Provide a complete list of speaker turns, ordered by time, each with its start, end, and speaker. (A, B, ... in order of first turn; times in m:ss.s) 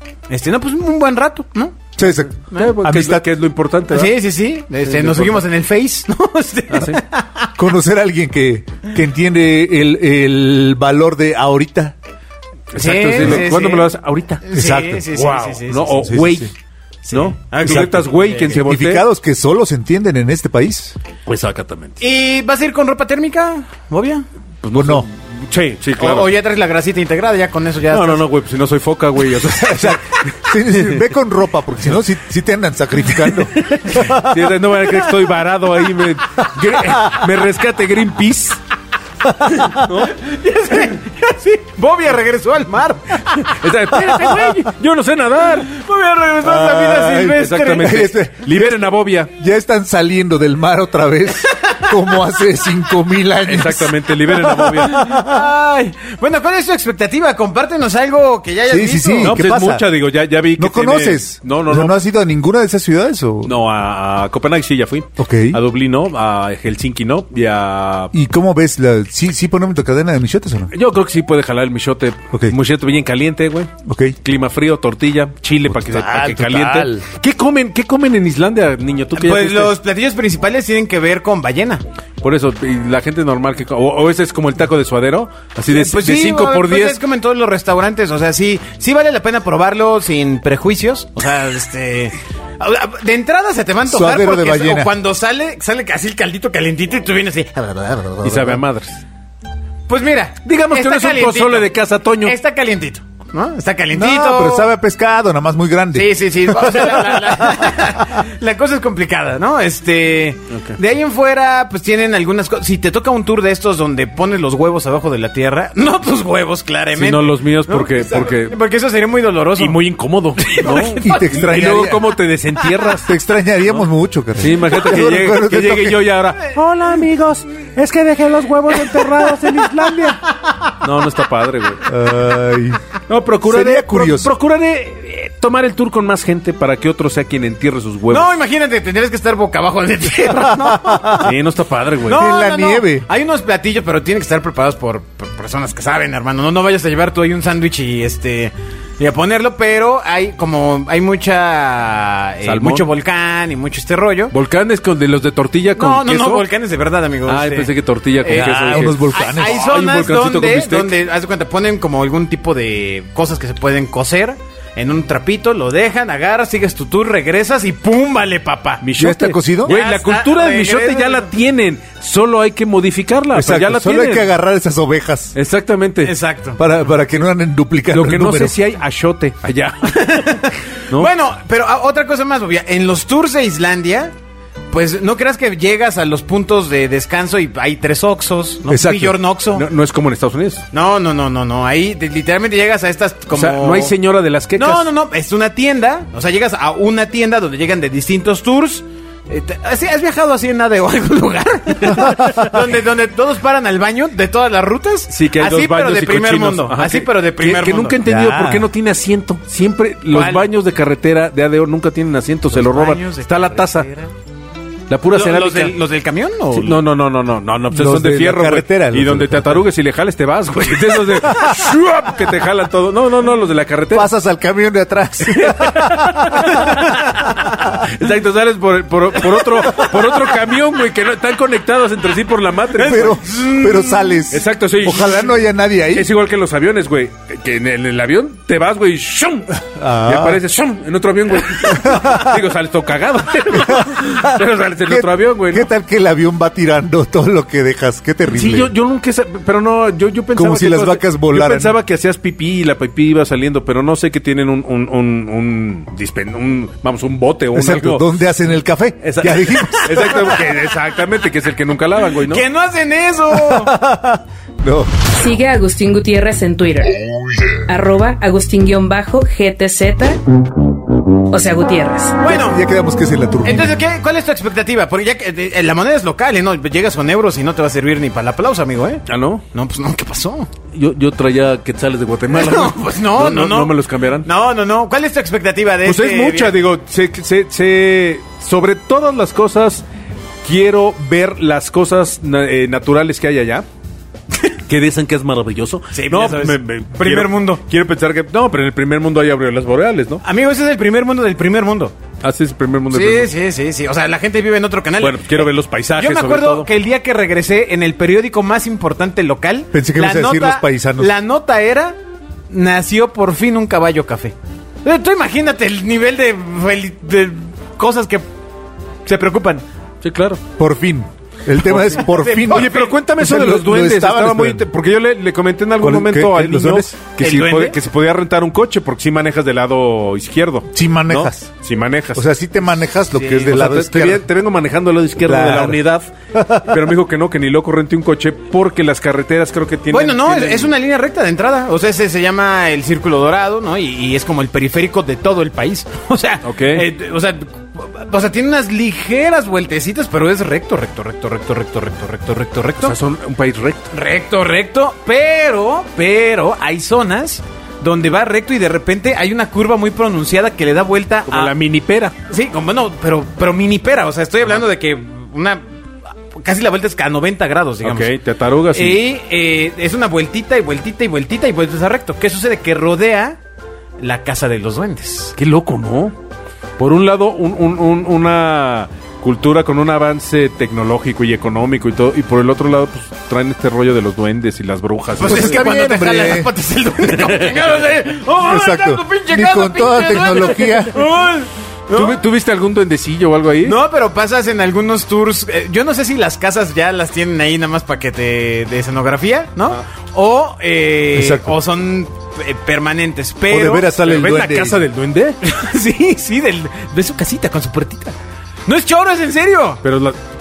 0:00.3-0:01.9 A
0:02.0-0:03.2 B
0:02.5-0:04.2 C
0:03.9-0:07.5 A
0:04.8-0:05.4 C
0:06.7-0:07.0 C
0:07.6-0:11.9 B
0:12.7-0:14.4 C
0:12.8-0:13.9 A
0:13.2-0:13.4 B
0:14.4-0:16.2 A
0:14.5-0:15.0 B
0:15.1-0:16.5 C
0:16.0-0:16.5 B
0:17.1-0:18.6 A
0:17.1-0:19.0 C
0:17.7-0:17.9 B
0:18.6-0:21.0 B
0:21.2-0:22.0 C
0:22.0-0:24.2 A
0:24.6-0:26.3 C
0:24.7-0:25.1 B
0:26.0-0:28.2 A
0:27.9-0:31.0 C
0:29.6-0:34.4 B
0:33.4-0:38.6 C
0:36.8-0:37.1 B
0:39.2-0:39.9 B
0:39.6-0:40.1 C
0:40.0-0:44.5 A
0:43.2-0:45.7 C
0:45.7-0:48.1 A
0:46.4-0:55.4 B
0:47.3-0:49.3 C
0:51.5-0:51.9 A
0:53.4-0:55.0 C
0:54.7-0:59.4 A
0:58.7-0:59.8 B
0:59.2-1:02.0 C
1:00.6-1:03.5 B
1:03.4-1:08.1 C
1:05.2-1:05.6 B
1:08.1-1:10.7 B
1:10.7-1:13.7 C
1:13.8-1:14.2 B
1:14.2-1:19.8 C
1:15.7-1:17.0 B
1:19.1-1:21.8 A
1:22.2-1:27.0 C
1:25.7-1:38.6 A
1:33.9-1:34.9 B
1:38.2-1:39.0 C
1:39.9-1:44.7 A
1:40.4-1:42.3 C
1:43.9-1:47.3 B
1:45.9-1:59.8 A
1:50.5-1:50.8 C
1:56.9-1:58.6 C
1:59.6-2:03.1 C
2:00.4-2:01.5 A
2:01.0-2:02.1 B
2:03.0-2:06.1 B
2:04.4-2:10.2 C
2:08.7-2:10.8 A
2:10.8-2:11.8 C
2:11.8-2:12.8 B
2:13.1-2:18.3 C
2:13.4-2:14.3 B
2:18.1-2:21.3 A
2:20.6-2:21.3 B
2:21.2-2:22.2 C
2:22.0-2:34.3 A
2:22.1-2:23.1 B
2:32.4-2:32.9 C
2:34.3-2:36.5 C
2:35.8-2:37.7 A
2:37.2-2:40.9 C
2:38.2-2:48.8 A
2:38.2-2:39.6 B
2:48.8-2:54.3 C
2:49.0-2:49.7 B
2:49.6-2:51.3 A
2:53.3-2:55.3 B
2:55.3-2:56.1 C
2:56.0-2:56.6 A
2:56.6-2:58.5 B
2:57.9-3:01.1 C
2:59.9-3:04.1 A
3:04.7-3:09.6 A
3:08.7-3:09.2 B
3:09.5-3:10.6 C
3:10.7-3:13.9 A
3:13.3-3:14.9 C
3:14.6-3:28.0 A
3:22.0-3:22.5 B
3:25.1-3:33.9 C
3:28.0-3:28.7 B
3:30.1-3:30.4 A
3:32.5-3:34.1 A
3:34.9-3:35.7 C
3:35.1-3:36.8 A
3:36.5-3:44.1 C
3:37.7-3:39.6 B
3:43.9-3:46.8 B
3:45.3-3:53.2 C
3:46.5-3:47.4 A
3:52.8-3:54.0 A
3:52.8-3:56.1 B
3:54.3-3:55.3 C
3:55.9-4:05.7 C
3:59.6-4:00.4 B
4:01.7-4:02.3 B
4:03.5-4:08.7 B
4:08.3-4:18.1 C
4:10.3-4:11.7 B
4:17.5-4:20.4 B
4:19.0-4:22.4 C
4:22.2-4:23.7 A
4:23.3-4:24.9 B
4:25.1-4:27.0 D
4:27.7-4:30.2 D
4:31.3-4:32.2 D
4:32.2-4:32.6 A
4:32.2-4:33.7 B
4:33.4-4:40.5 A
4:39.1-4:39.4 C
4:40.7-4:44.3 C
4:42.3-4:46.5 A
4:45.8-4:49.8 C
4:50.4-4:53.6 C
4:54.7-5:00.2 C
4:55.9-4:57.6 A
5:00.2-5:02.0 A
5:02.2-5:03.3 C
5:02.9-5:12.0 A
5:05.0-5:06.7 C
5:09.7-5:11.1 B
5:12.5-5:18.3 A
5:19.0-5:19.6 A
5:20.0-5:20.4 C
5:20.6-5:24.6 B
5:21.6-5:32.3 C
5:21.9-5:23.0 A
5:25.8-5:26.9 B
5:27.2-5:27.8 A
5:30.7-5:31.5 B
5:32.2-5:34.2 B
5:33.2-5:33.4 A
5:33.3-5:36.1 C
5:35.2-5:35.8 B
5:36.3-5:36.7 B
5:36.6-5:40.7 C
5:39.9-5:52.9 A
5:46.4-5:46.9 C
5:52.8-5:53.9 C
5:53.9-6:01.5 A
6:01.3-6:02.1 C
6:02.3-6:05.6 A
6:06.4-6:08.1 A
6:07.8-6:09.0 C
6:08.7-6:13.4 A
6:14.0-6:15.3 A
6:15.4-6:16.2 C
6:16.8-6:25.6 C
6:25.2-6:32.2 A
6:25.2-6:26.5 B
6:27.1-6:27.6 C
6:28.4-6:30.9 B
6:31.9-6:33.8 C
6:33.6-6:43.9 A
6:41.1-6:41.5 B
6:43.5-6:44.8 B
6:44.0-6:45.4 C
6:45.4-6:49.8 A
6:49.8-6:50.2 C